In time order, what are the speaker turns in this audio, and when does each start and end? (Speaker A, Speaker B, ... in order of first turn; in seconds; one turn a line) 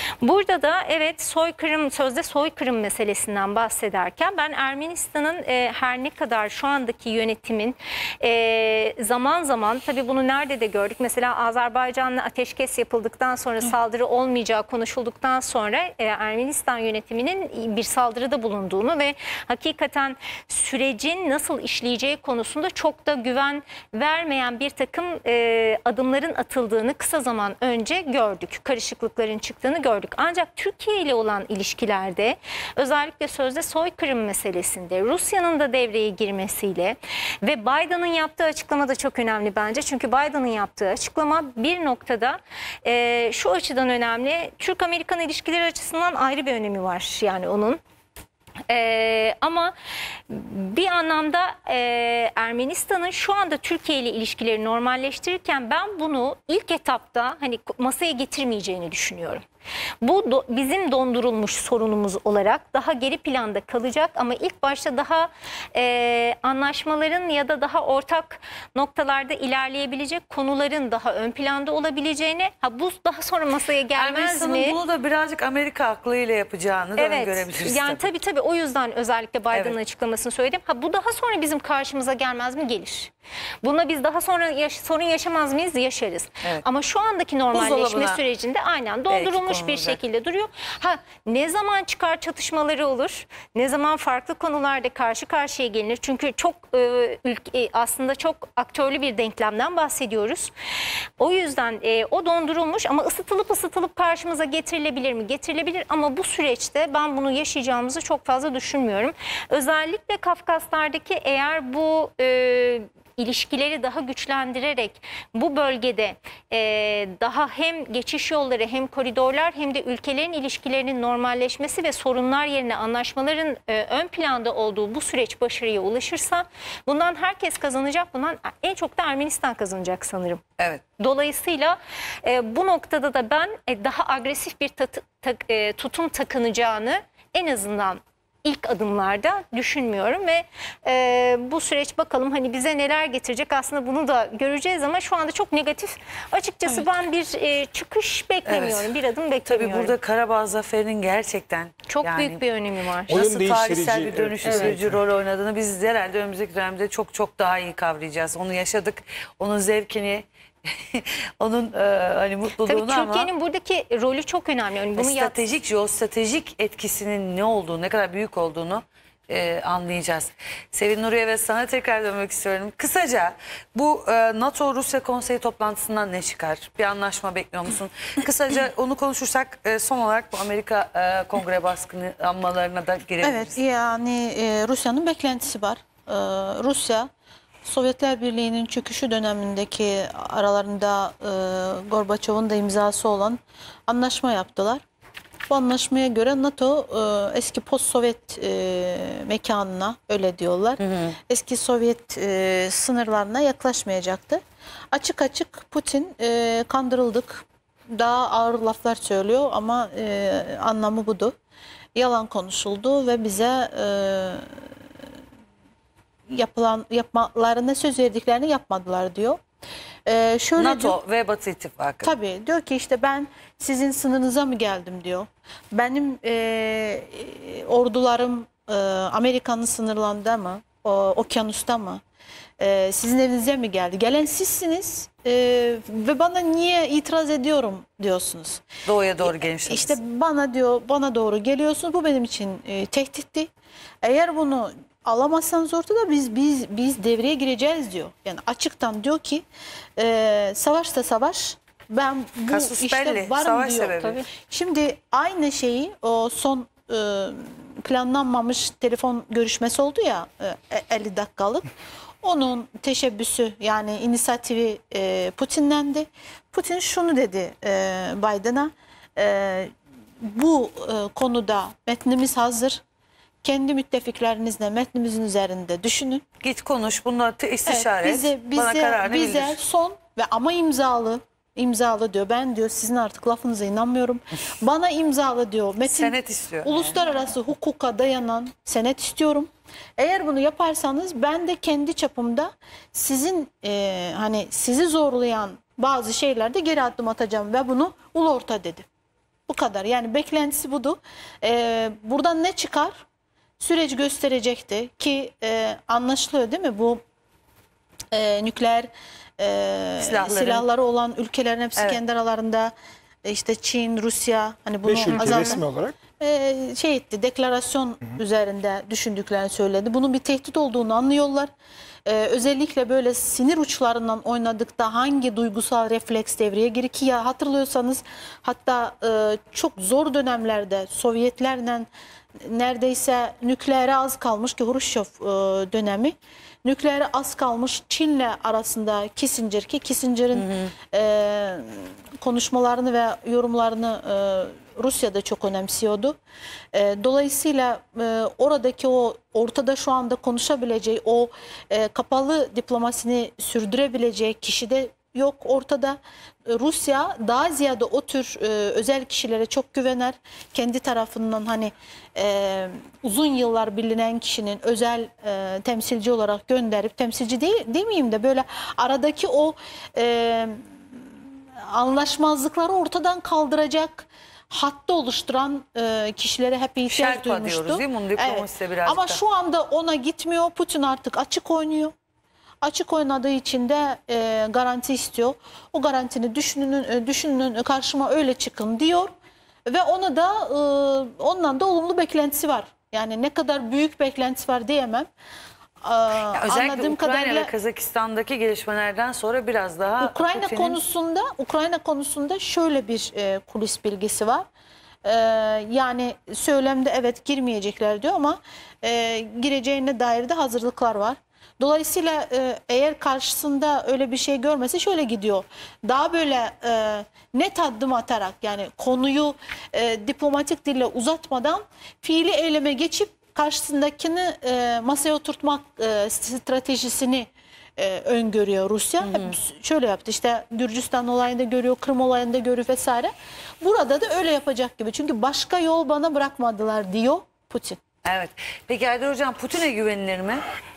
Speaker A: 0.2-47.8
Speaker A: 48.7-49.7
Speaker A: 50.3-59.4
Speaker A: 60.0-74.8
Speaker B: 74.0-78.1
Speaker A: 77.0-83.1
Speaker A: 83.6-100.5
Speaker B: 87.5-88.2
Speaker B: 89.1-90.0
Speaker A: 101.2-130.4
Speaker A: 131.0-149.9
Speaker B: 148.5-148.9
Speaker B: 149.5-152.4
Speaker A: 151.9-153.2
Speaker B: 153.1-163.3
Speaker C: 153.1-155.0
Speaker A: 154.4-154.7
Speaker A: 162.7-165.4
Speaker B: 165.0-183.6
Speaker D: 183.2-187.1
Speaker D: 187.7-194.8
Speaker D: 195.5-211.3
Speaker B: 200.8-201.2
Speaker D: 212.0-214.5
Speaker D: 216.3-219.4
Speaker D: 220.1-221.0
Speaker B: 220.6-222.1
Speaker D: 222.0-232.0
Speaker D: 232.6-238.6
Speaker B: 238.9-240.0
Speaker D: 239.2-243.5
Speaker D: 244.0-249.4
Speaker D: 250.0-261.7
Speaker B: 252.5-254.2
Speaker D: 262.2-272.8
Speaker D: 273.4-276.2
Speaker B: 276.4-279.6
Speaker D: 277.7-298.9
Speaker B: 285.9-287.0
Speaker D: 299.5-303.1
Speaker D: 303.6-307.0
Speaker D: 308.1-312.7
Speaker B: 310.0-310.6
Speaker D: 313.2-315.6
Speaker C: 314.9-316.0
Speaker B: 315.2-315.5
Speaker D: 316.2-321.5
Speaker D: 322.1-331.9
Speaker D: 332.4-346.2
Speaker B: 340.4-340.7
Speaker D: 346.7-370.6
Speaker D: 371.7-381.9
Speaker B: 376.9-379.2
Speaker D: 382.6-389.1
Speaker D: 389.7-395.1
Speaker D: 395.8-397.5
Speaker B: 396.3-400.8
Speaker D: 400.0-404.5
Speaker D: 405.1-437.8
Speaker B: 429.0-429.3
Speaker B: 438.1-440.5